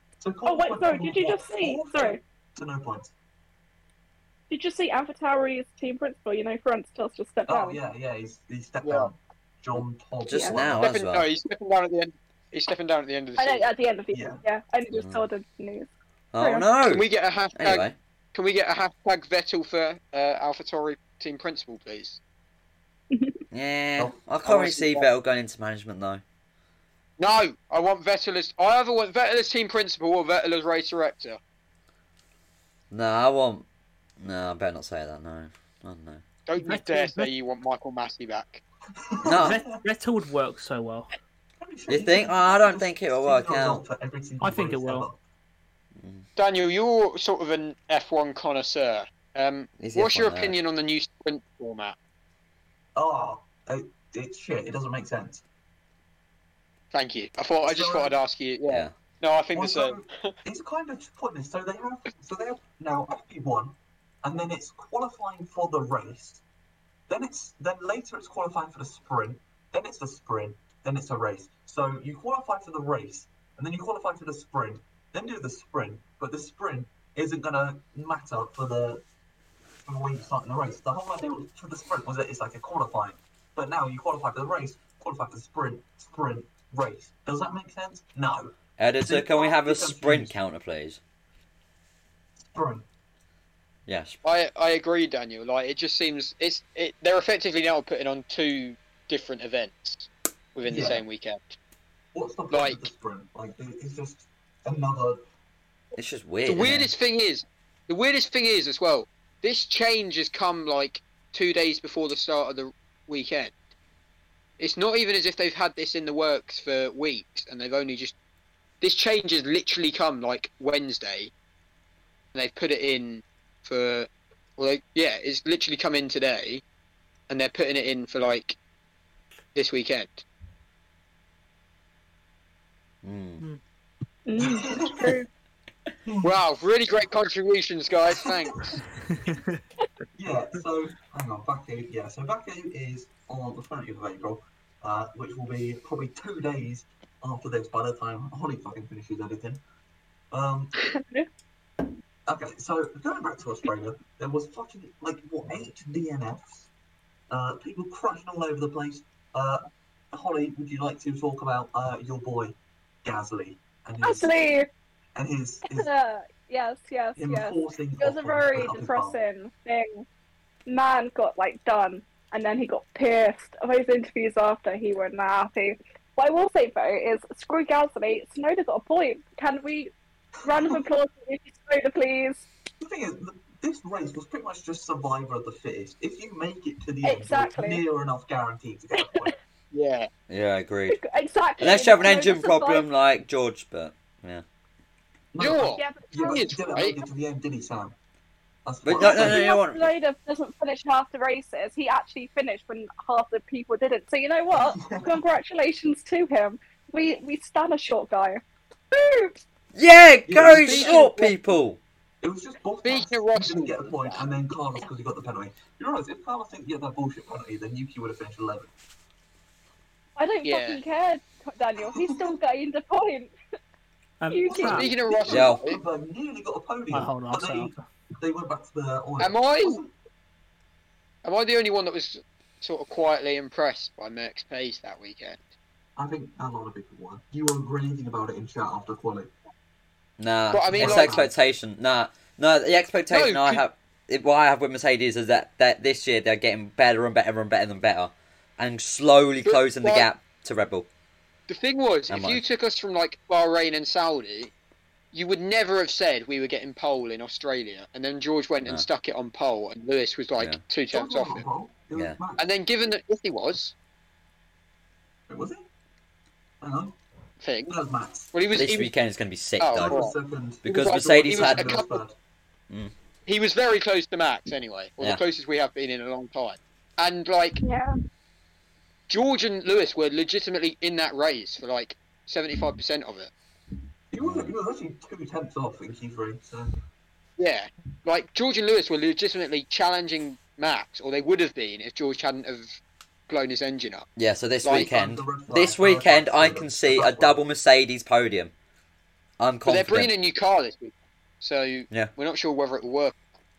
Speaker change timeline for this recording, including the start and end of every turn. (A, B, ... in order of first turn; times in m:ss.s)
0:00.2-0:03.1 A
0:00.4-0:02.2 B
0:04.5-0:07.8 B
0:07.5-0:10.8 A
0:08.8-0:09.1 C
0:10.3-0:11.3 D
0:10.8-0:13.7 C
0:13.4-0:15.9 B
0:14.1-0:14.4 A
0:14.9-0:15.2 D
0:16.3-0:18.0 D
0:16.4-0:16.7 B
0:16.9-0:22.2 C
0:23.1-0:23.4 B
0:23.5-0:26.2 D
0:24.4-0:25.0 C
0:27.2-0:31.4 C
0:32.9-0:33.6 D
0:34.2-0:36.2 D
0:36.4-0:38.6 C
0:36.6-0:37.3 E
0:39.0-0:39.8 A
0:39.2-0:39.6 D
0:39.4-0:41.1 E
0:41.6-0:45.2 A
0:41.9-0:43.8 D
0:44.4-0:45.1 E
0:46.0-0:46.2 D
0:46.4-0:52.0 C
0:49.8-0:50.5 D
0:52.9-0:55.4 A
0:56.9-1:00.3 C
0:57.6-0:58.2 A
0:58.7-0:58.9 D
0:59.5-1:06.4 A
1:07.1-1:19.0 A
1:19.8-1:30.3 A
1:28.8-1:31.0 D
1:32.5-1:32.8 A
1:33.9-1:34.2 D
1:34.2-1:41.6 C
1:40.6-1:41.0 A
1:42.1-1:45.2 A
1:42.5-1:42.9 C
1:46.0-1:46.9 D
1:46.4-1:53.5 C
1:54.6-1:58.1 C
1:58.8-2:01.3 C
2:02.3-2:06.6 C
2:07.3-2:08.6 C
2:09.5-2:10.2 C
2:13.0-2:13.4 D
2:14.3-2:15.3 B
2:14.4-2:15.2 A
2:16.0-2:16.4 A
2:16.2-2:18.8 C
2:18.2-2:18.7 A
2:19.1-2:19.6 E
2:20.2-2:29.6 A
2:30.3-2:30.7 A
2:30.9-2:31.3 B
2:32.3-2:36.7 A
2:37.3-2:44.3 A
2:44.0-2:44.7 B
2:45.1-2:45.9 A
2:45.7-2:50.0 B
2:47.2-2:49.2 A
2:50.7-2:59.9 B
3:00.4-3:02.4 B
3:00.5-3:00.8 A
3:02.8-3:09.3 A
3:07.0-3:07.8 B
3:09.0-3:09.3 B
3:09.7-3:10.1 C
3:10.3-3:11.0 D
3:10.9-3:12.9 B
3:11.6-3:14.4 D
3:15.3-3:18.0 A
3:15.4-3:17.0 C
3:15.6-3:16.8 B
3:18.6-3:19.5 A
3:18.8-3:19.9 D
3:19.0-3:29.3 B
3:24.5-3:25.2 A
3:29.7-3:31.8 D
3:30.2-3:31.0 A
3:30.4-3:31.3 C
3:32.2-3:38.7 A
3:32.8-3:34.3 C
3:40.2-3:43.3 B
3:40.4-3:40.8 C
3:41.8-3:42.3 A
3:44.2-3:44.9 E
3:44.3-3:44.8 B
3:44.5-3:49.9 A
3:44.7-3:45.8 C
3:45.3-3:45.6 D
3:46.9-3:47.8 E
3:49.2-3:49.8 C
3:51.2-3:55.4 C
3:56.0-3:59.3 A
4:00.2-4:10.9 D
4:00.5-4:01.2 C
4:00.7-4:01.3 A
4:03.1-4:03.6 C
4:09.4-4:10.1 C
4:11.5-4:14.5 C
4:12.1-4:12.4 D
4:15.1-4:21.4 C
4:20.9-4:22.5 A
4:21.9-4:22.2 D
4:22.4-4:23.7 C
4:25.3-4:25.6 A
4:26.6-4:27.0 A
4:27.4-4:27.7 C
4:27.7-4:28.3 A
4:28.3-4:28.9 C
4:28.5-4:30.0 D
4:29.6-4:30.1 C
4:29.8-4:32.2 A
4:30.6-4:31.8 D
4:30.6-4:32.0 C
4:33.2-4:37.6 C
4:37.6-4:37.9 B
4:39.1-4:43.3 C
4:44.1-4:46.7 A
4:44.2-4:44.5 D
4:47.4-4:52.8 C
4:53.3-4:54.1 C
4:54.2-4:58.5 D
4:54.6-4:54.9 C
4:54.7-4:57.4 A
4:59.4-5:00.1 D
4:59.6-5:03.2 C